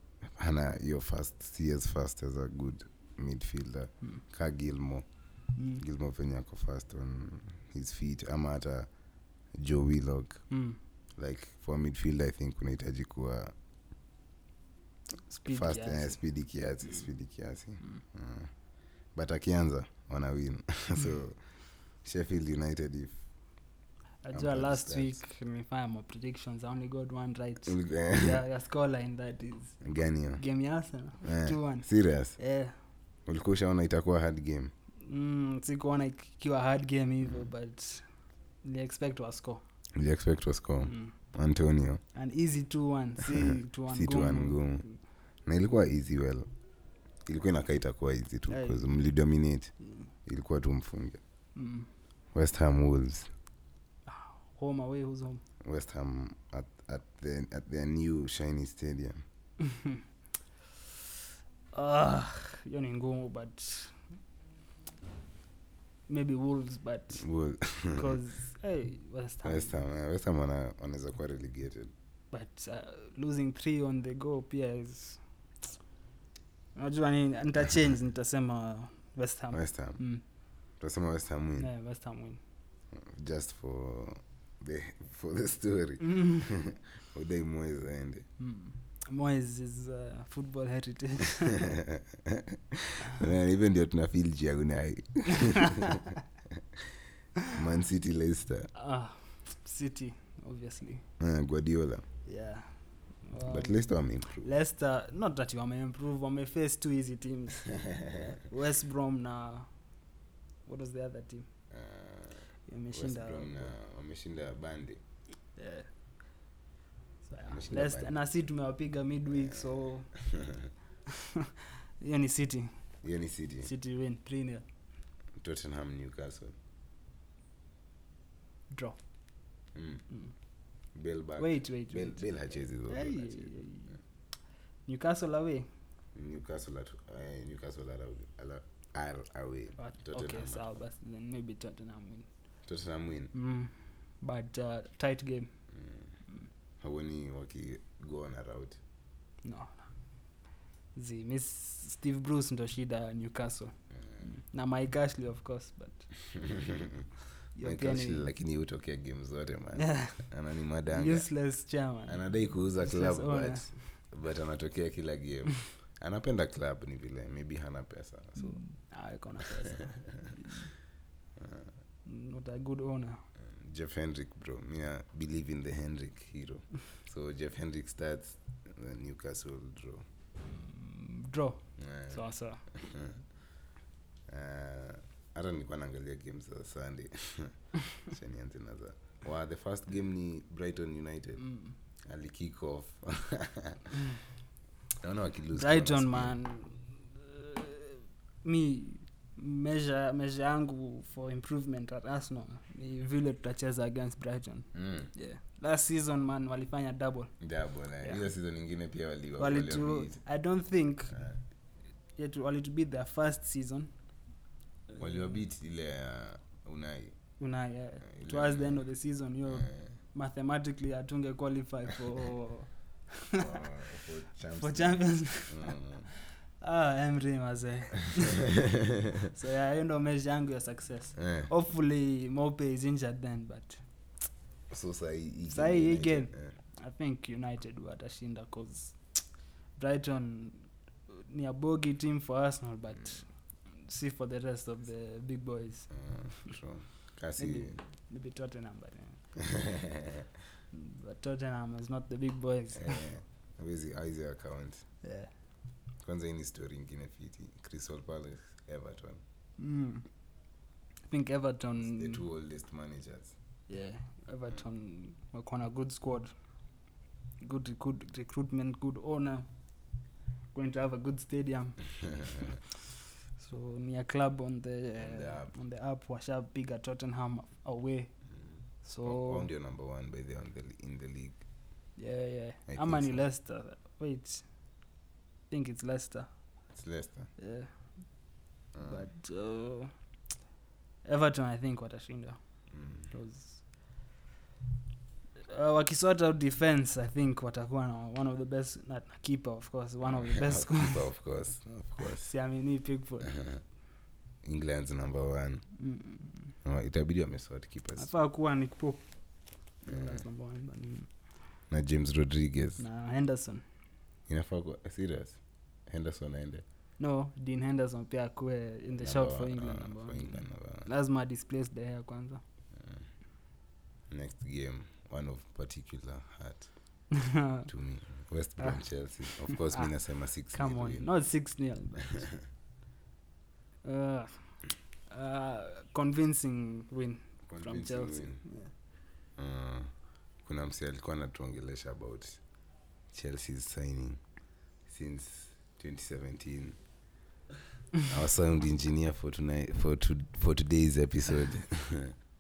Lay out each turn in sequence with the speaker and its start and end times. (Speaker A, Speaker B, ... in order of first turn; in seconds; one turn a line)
Speaker A: 0.2-5.1
Speaker B: 5.6-5.8
Speaker A: 5.8-8.9
Speaker A: 9.5-10.5
Speaker B: 10.5-10.8
Speaker A: 11.2-13.5
Speaker B: 15.3-16.2
Speaker A: 15.5-18.5
Speaker A: 19.1-21.4
Speaker A: 22.0-23.2
Speaker B: 24.2-32.8
Speaker A: 24.3-25.2
Speaker A: 27.7-28.4
Speaker A: 29.8-30.4
Speaker A: 31.2-32.4
Speaker A: 33.3-34.7
Speaker B: 35.0-38.1
Speaker A: 37.2-37.5
Speaker B: 38.6-39.6
Speaker A: 39.9-42.0
Speaker B: 40.9-41.1
Speaker B: 42.1-44.9
Speaker A: 43.9-44.9
Speaker A: 45.5-46.5
Speaker A: 47.2-51.2
Speaker B: 48.5-48.9
Speaker B: 51.5-51.9
Speaker A: 52.3-53.3
Speaker B: 54.1-55.4
Speaker A: 55.6-59.2
Speaker B: 61.7-64.0
Speaker B: 66.1-67.3
Speaker A: 67.2-68.2
Speaker B: 67.9-69.7
Speaker A: 69.4-71.9
Speaker B: 72.3-75.2
Speaker B: 76.8-80.2
Speaker A: 79.5-80.0
Speaker A: 80.8-81.7
Speaker B: 81.6-82.4
Speaker A: 82.9-88.3
Speaker B: 86.0-86.4
Speaker B: 88.4-91.6
Speaker A: 91.7-96.0
Speaker A: 97.5-98.7
Speaker B: 98.8-101.0
Speaker A: 101.2-102.0
Speaker B: 102.3-109.7
Speaker A: 103.4-104.5
Speaker B: 110.7-111.5
Speaker A: 111.7-115.0
Speaker B: 112.7-113.7
Speaker B: 115.6-115.9
Speaker B: 117.2-120.2
Speaker A: 117.5-118.1
Speaker A: 119.3-120.7
Speaker B: 122.0-122.8
Speaker A: 123.0-123.7
Speaker B: 123.6-124.7
Speaker A: 125.4-126.5
Speaker B: 128.7-129.0
Speaker A: 129.7-130.1
Speaker A: 130.9-133.5
Speaker B: 131.4-132.3
Speaker B: 132.9-134.0
Speaker B: 134.9-135.7
Speaker A: 136.2-140.7
Speaker B: 139.8-142.3
Speaker A: 142.7-143.3
Speaker B: 143.3-145.5
Speaker A: 145.7-146.1
Speaker A: 146.8-148.8
Speaker B: 149.4-149.9
Speaker B: 150.9-156.1
Speaker A: 156.4-157.1
Speaker B: 157.6-158.3
Speaker A: 157.6-161.3
Speaker B: 159.8-160.2
Speaker B: 160.9-163.9
Speaker A: 162.1-168.6
Speaker B: 168.4-170.7
Speaker A: 171.4-171.7
Speaker B: 172.1-173.2
Speaker A: 173.4-180.1
Speaker B: 180.5-182.7
Speaker A: 181.8-183.2
Speaker A: 184.3-191.5
Speaker B: 191.4-191.7
Speaker A: 192.1-193.9
Speaker A: 195.0-196.4
Speaker B: 195.5-207.4
Speaker A: 204.7-205.1
Speaker A: 207.4-210.2
Speaker B: 208.0-208.3
Speaker B: 209.4-211.2
Speaker A: 211.1-211.4
Speaker B: 212.2-213.9
Speaker A: 215.0-217.2
Speaker B: 217.4-223.4
Speaker A: 218.1-218.9
Speaker A: 219.5-219.9
Speaker A: 223.3-226.1
Speaker B: 224.6-225.8
Speaker B: 226.6-228.5
Speaker B: 229.3-233.8
Speaker A: 231.2-231.5
Speaker A: 234.7-236.5
Speaker B: 235.5-246.3
Speaker A: 245.9-247.8
Speaker B: 247.4-249.4
Speaker A: 249.5-250.2
Speaker B: 250.7-253.1
Speaker A: 252.8-254.8
Speaker B: 255.0-255.3
Speaker A: 256.0-259.2
Speaker B: 259.6-260.1
Speaker B: 261.1-262.2
Speaker A: 261.8-263.3
Speaker B: 263.7-266.3
Speaker B: 267.4-269.5
Speaker B: 270.5-272.4
Speaker B: 273.4-278.1
Speaker A: 275.0-275.5
Speaker A: 278.5-281.4
Speaker B: 278.8-279.5
Speaker B: 282.0-284.5
Speaker A: 282.7-283.2
Speaker B: 285.5-286.3
Speaker A: 286.7-287.3
Speaker B: 287.4-288.2
Speaker A: 288.7-289.1
Speaker B: 288.8-289.9
Speaker B: 291.0-292.4
Speaker A: 292.7-293.1
Speaker B: 292.9-293.6
Speaker B: 295.5-301.1
Speaker A: 300.2-302.4
Speaker B: 302.2-303.4
Speaker A: 303.4-303.6
Speaker A: 304.4-305.8
Speaker B: 305.8-306.5
Speaker A: 306.6-308.1
Speaker B: 308.0-311.1
Speaker A: 309.9-310.2
Speaker A: 311.7-312.8
Speaker B: 312.8-313.6
Speaker A: 314.3-316.6
Speaker B: 317.0-322.4
Speaker A: 319.0-320.9
Speaker A: 322.7-323.1
Speaker A: 324.1-327.1
Speaker B: 327.1-327.7
Speaker A: 327.7-331.1
Speaker B: 328.6-329.9
Speaker B: 330.5-332.3
Speaker B: 333.8-338.7
Speaker A: 337.5-338.4
Speaker A: 339.4-342.4
Speaker A: 343.1-344.2
Speaker A: 344.9-346.8
Speaker A: 348.1-352.1